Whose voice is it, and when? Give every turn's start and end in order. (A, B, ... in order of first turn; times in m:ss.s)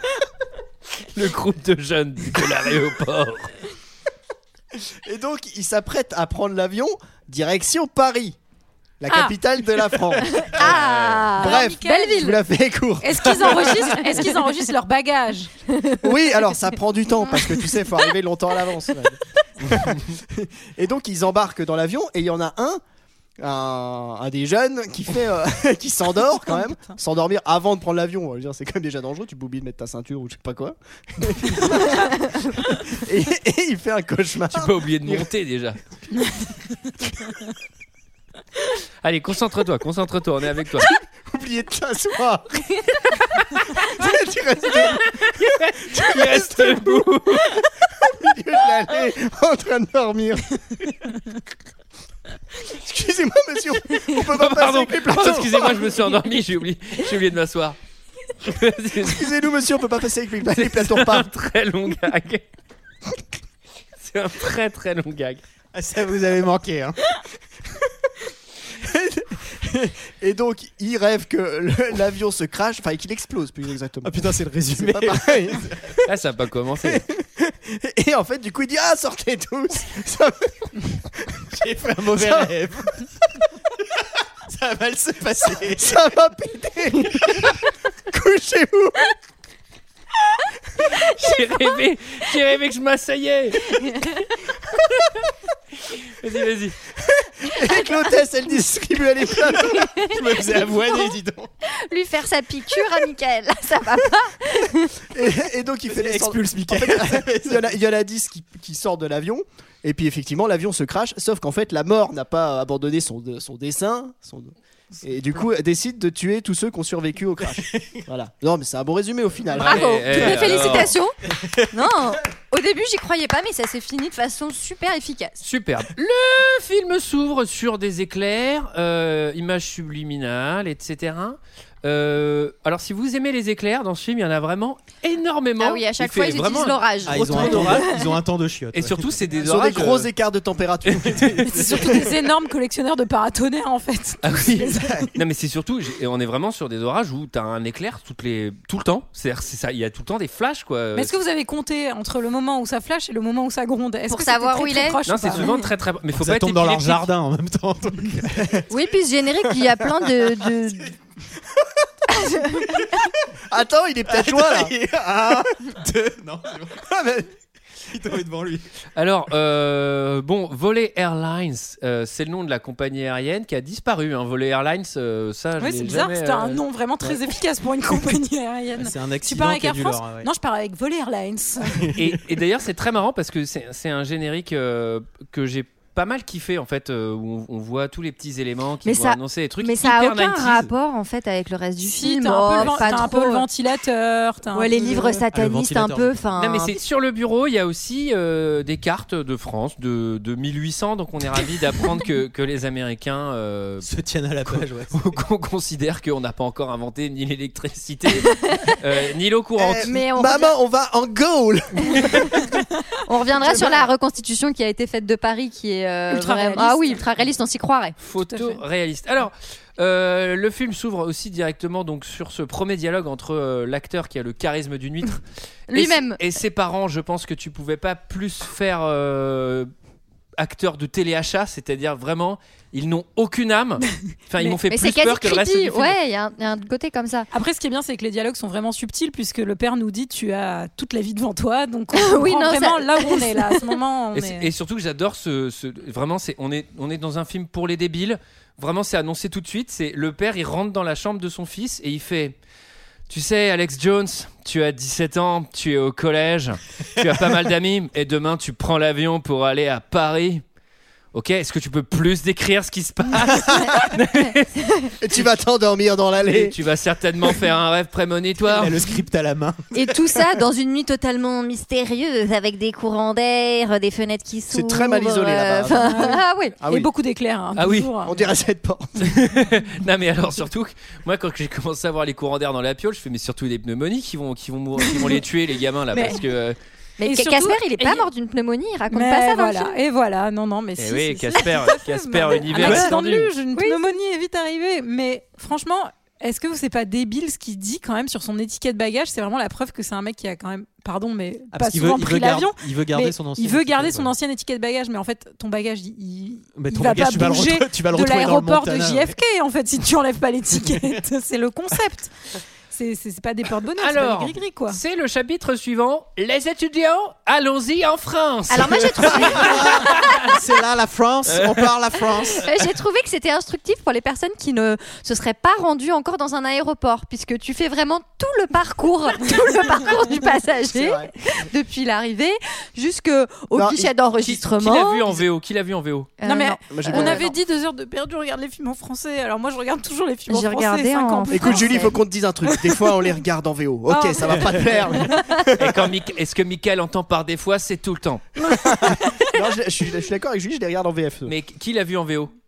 0:01.1-0:03.5 A
0:04.8-0:08.4 B
0:09.0-0:10.8 B
0:09.1-0:09.3 C
0:10.4-0:12.4 D
0:10.6-0:11.3 A
0:11.3-0:14.1 B
0:11.4-0:12.4 C
0:13.0-0:15.5 C
0:13.6-0:14.3 D
0:15.7-0:16.1 D
0:16.0-0:22.8 B
0:23.4-0:32.2 B
0:26.6-0:26.9 C
0:32.8-0:35.3 B
0:34.5-0:35.8 A
0:39.0-0:40.9 A
0:41.2-0:43.2 B
0:43.8-0:47.0 B
0:45.2-0:47.6 A
0:47.6-0:50.8 B
0:52.6-0:56.0 B
0:54.2-0:57.8 A
0:58.4-0:59.3 A
0:59.0-1:01.3 B
1:00.5-1:02.4 A
1:04.0-1:05.4 A
1:05.7-1:07.0 E
1:08.8-1:16.0 B
1:14.0-1:15.8 E
1:16.0-1:17.0 A
1:16.8-1:21.4 B
1:21.5-1:23.0 E
1:22.0-1:22.5 B
1:24.5-1:26.0 E
1:25.6-1:29.1 B
1:30.9-1:33.9 A
1:33.7-1:34.2 D
1:35.9-1:36.8 A
1:37.1-1:39.9 B
1:39.6-1:41.5 E
1:39.7-1:41.1 D
1:41.8-1:45.0 D
1:45.1-2:00.6 B
1:45.9-1:47.6 E
1:57.6-1:58.0 E
1:59.6-2:00.9 A
1:59.6-2:01.2 D
2:01.3-2:01.8 E
2:01.7-2:05.4 D
2:05.4-2:18.0 A
2:15.6-2:18.1 D
2:17.0-2:19.2 E
2:18.7-2:20.1 A
2:19.4-2:22.2 B
2:20.8-2:21.5 A
2:21.4-2:25.1 C
2:24.2-2:31.1 A
2:24.7-2:25.1 B
2:30.9-2:35.5 C
2:34.1-2:35.0 D
2:35.0-2:37.1 A
2:36.1-2:38.6 E
2:38.4-2:38.6 B
2:38.7-2:40.9 D
2:39.5-2:40.3 B
2:43.5-2:45.5 B
2:44.1-2:46.8 E
2:46.8-2:47.3 B
2:47.9-2:48.6 E
2:49.0-2:56.6 A
2:55.6-3:01.8 C
2:58.8-3:00.3 E
3:01.6-3:02.2 E
3:02.0-3:10.7 A
3:08.8-3:13.4 D
3:11.8-3:15.2 C
3:14.5-3:16.8 D
3:15.3-3:16.2 E
3:16.4-3:23.9 A
3:23.8-3:25.1 E
3:24.4-3:29.9 A
3:28.2-3:28.7 D
3:29.6-3:32.5 B
3:29.8-3:30.5 D
3:33.0-3:38.0 D
3:33.4-3:33.9 B
3:36.1-3:37.0 C
3:38.0-3:45.2 A
3:38.3-3:38.6 C
3:45.7-3:46.2 D
3:45.7-3:49.7 A
3:50.4-3:56.0 A
3:54.7-3:57.3 D
3:57.3-4:04.5 C
4:01.9-4:03.7 D
4:04.1-4:12.4 A
4:13.1-4:20.4 A
4:21.1-4:24.5 A
4:23.6-4:23.9 D
4:24.6-4:24.9 D
4:25.0-4:26.6 B
4:26.2-4:28.8 A
4:28.5-4:29.7 E
4:29.7-4:36.6 D
4:34.5-4:36.9 B
4:35.8-4:38.3 C
4:37.6-4:37.9 A
4:38.0-4:39.2 B
4:39.0-4:46.6 A
4:44.8-4:45.2 C
4:45.9-4:46.2 C
4:47.0-4:49.8 D
4:47.0-4:48.1 C
4:48.9-5:12.1 C
4:50.8-4:53.3 A
4:52.5-4:52.9 D
5:01.5-5:04.1 E
5:06.5-5:09.1 E
5:12.7-5:14.8 C
5:13.8-5:20.2 A
5:18.5-5:20.4 D
5:19.2-5:22.5 E
5:21.3-5:21.7 A
5:22.4-5:35.2 D
5:30.7-5:31.1 B
5:33.5-5:33.9 B
5:34.2-5:36.1 A
5:36.2-5:37.3 D
5:36.2-5:41.9 C
5:36.7-5:37.3 B
5:40.3-5:42.0 D
5:41.3-5:45.7 B
5:43.9-5:45.2 C
5:45.6-5:48.3 A
5:48.5-5:51.3 B
5:48.6-5:49.2 C
5:51.2-5:52.3 A